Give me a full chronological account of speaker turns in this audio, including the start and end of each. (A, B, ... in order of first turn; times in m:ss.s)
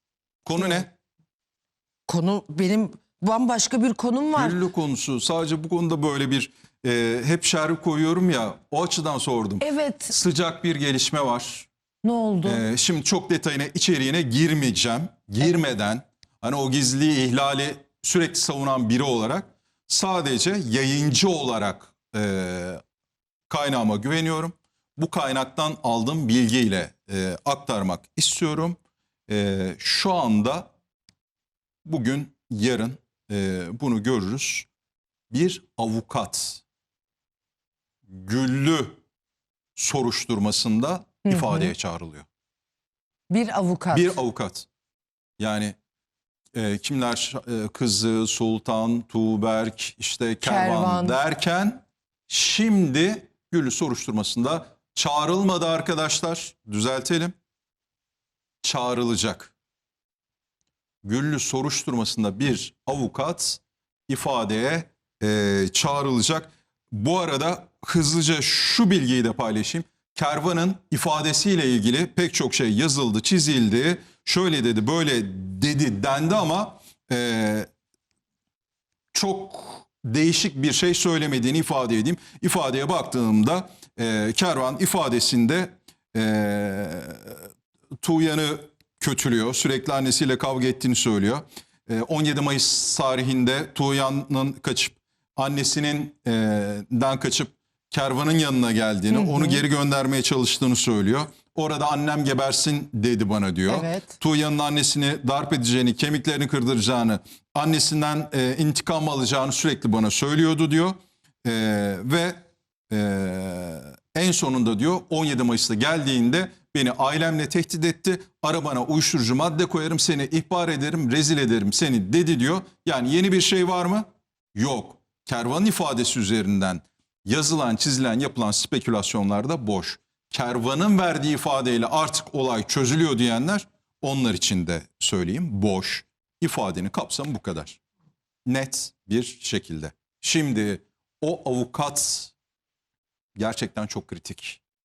0:00.4-0:00.9 A
0:02.1-0:04.6 B
0:04.4-0:11.7 A
0:09.6-0:10.1 B
0:12.0-0:12.6 B
0:12.4-0:22.8 A
0:23.5-0:30.7 A
0:31.8-0:34.7 A
0:35.3-0:36.6 A
0:38.1-0:39.0 A
0:39.7-0:42.2 A
0:41.2-0:41.7 B
0:43.3-0:44.2 B
0:43.9-0:44.7 A
0:45.4-0:45.7 A
0:46.5-0:57.3 A
0:50.4-0:51.2 B
0:58.6-0:59.5 A
1:01.0-1:17.7 A
1:19.1-1:27.4 A
1:28.0-2:17.8 A
1:39.1-1:39.6 B
1:43.7-1:44.2 B
2:18.4-2:22.3 A
2:23.4-2:24.6 A